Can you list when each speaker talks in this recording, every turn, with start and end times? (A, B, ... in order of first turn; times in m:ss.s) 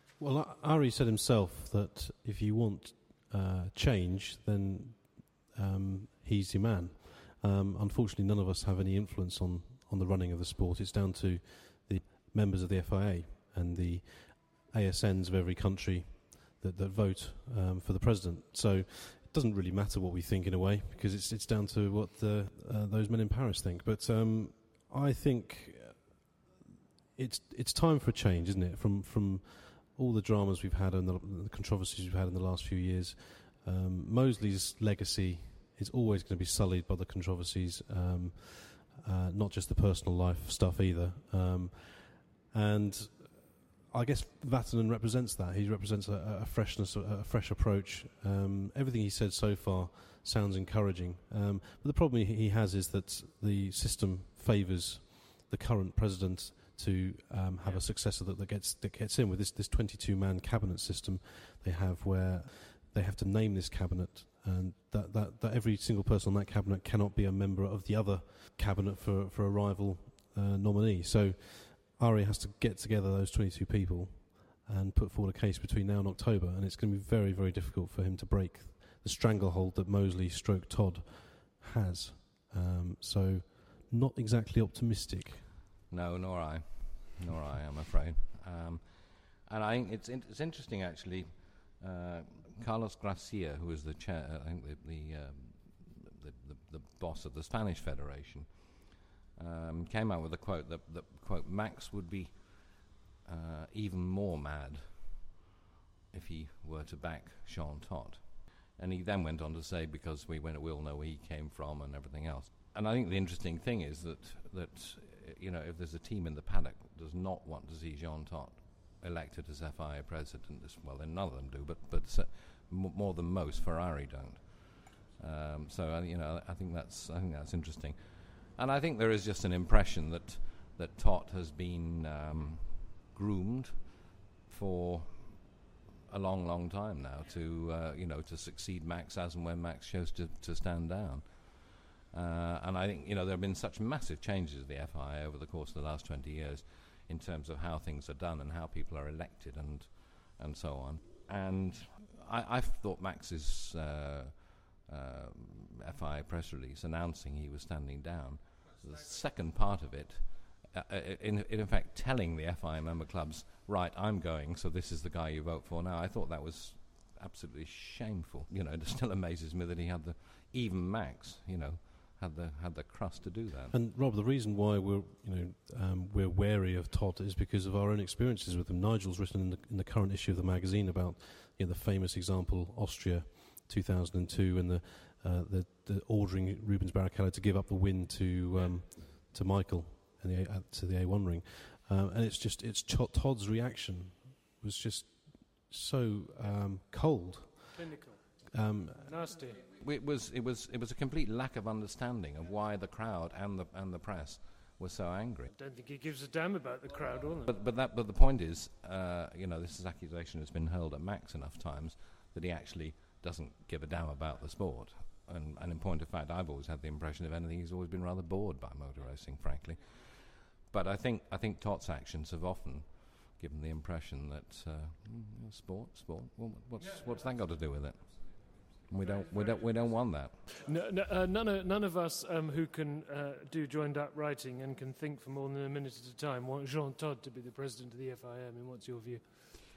0:00.2-0:26.5 A
0:27.1-1:25.5 A
1:25.9-1:45.4 B
1:46.1-2:15.5 B
2:16.1-2:53.7 B
2:53.7-3:18.0 A
3:17.7-3:19.6 C
3:18.5-3:19.2 A
3:19.6-3:25.5 B
3:25.5-3:27.5 C
3:27.4-3:50.4 B
3:50.6-3:59.5 C